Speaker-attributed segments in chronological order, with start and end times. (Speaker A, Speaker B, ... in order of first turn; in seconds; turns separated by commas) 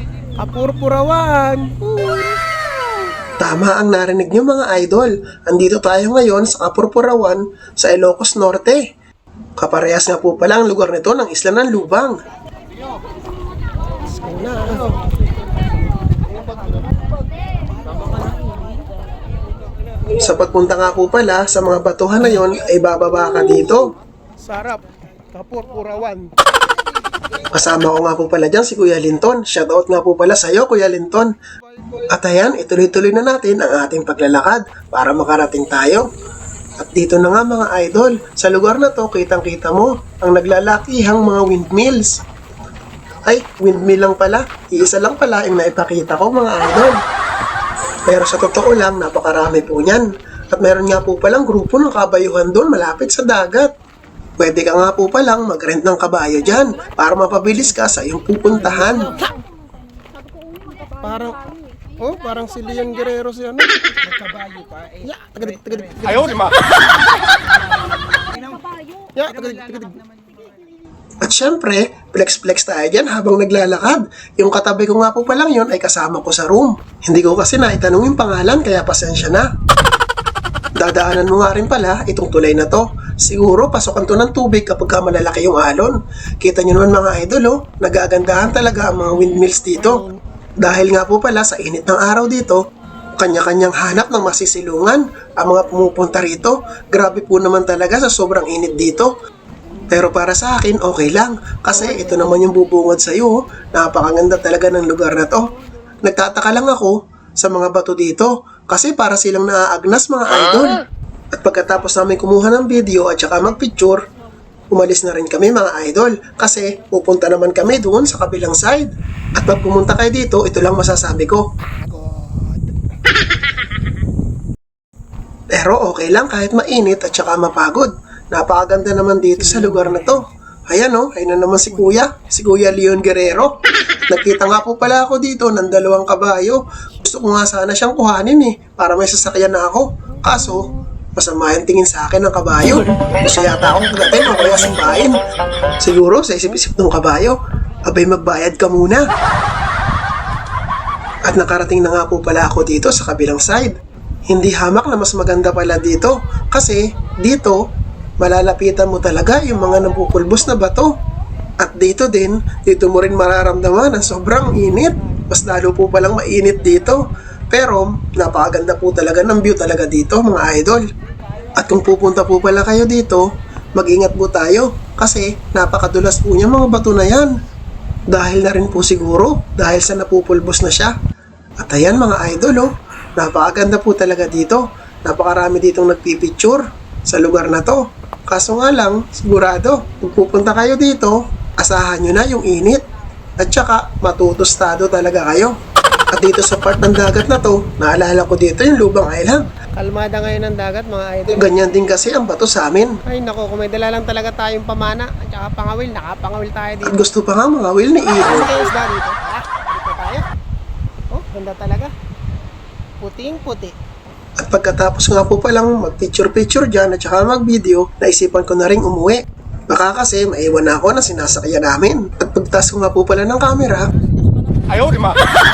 Speaker A: 0.4-2.4, Speaker B: 3.4-8.8, Speaker B: 9.6-12.2, Speaker A: 14.2-15.0, Speaker A: 18.1-18.3, Speaker B: 20.1-23.9, Speaker A: 24.4-26.3, Speaker B: 27.5-31.3, Speaker B: 32.1-36.1, Speaker B: 36.8-42.2, Speaker B: 43.3-47.0, Speaker B: 48.1-53.7, Speaker B: 54.4-59.0, Speaker A: 58.6-59.0, Speaker A: 61.0-61.4, Speaker A: 62.0-66.6, Speaker A: 69.2-70.0, Speaker B: 71.2-79.5, Speaker B: 80.8-90.0, Speaker B: 90.6-92.6, Speaker B: 93.2-99.1, Speaker B: 99.9-105.5, Speaker B: 106.0-110.8, Speaker B: 111.3-114.0, Speaker B: 114.7-121.5, Speaker A: 121.8-122.6, Speaker B: 125.5-133.6, Speaker A: 129.4-130.0, Speaker B: 134.1-145.2, Speaker B: 145.8-149.1, Speaker B: 151.3-153.8, Speaker B: 154.3-157.6, Speaker B: 158.2-160.9, Speaker B: 161.6-167.0, Speaker B: 167.5-170.8, Speaker B: 171.6-173.2, Speaker B: 173.8-177.3, Speaker B: 178.1-180.9, Speaker B: 181.6-192.8, Speaker B: 193.4-195.6, Speaker B: 196.1-199.4, Speaker A: 199.7-201.6, Speaker B: 201.4-203.0, Speaker A: 203.0-207.0, Speaker B: 206.9-208.5, Speaker A: 208.2-210.3, Speaker A: 211.1-211.9, Speaker A: 213.0-213.7, Speaker B: 214.4-223.9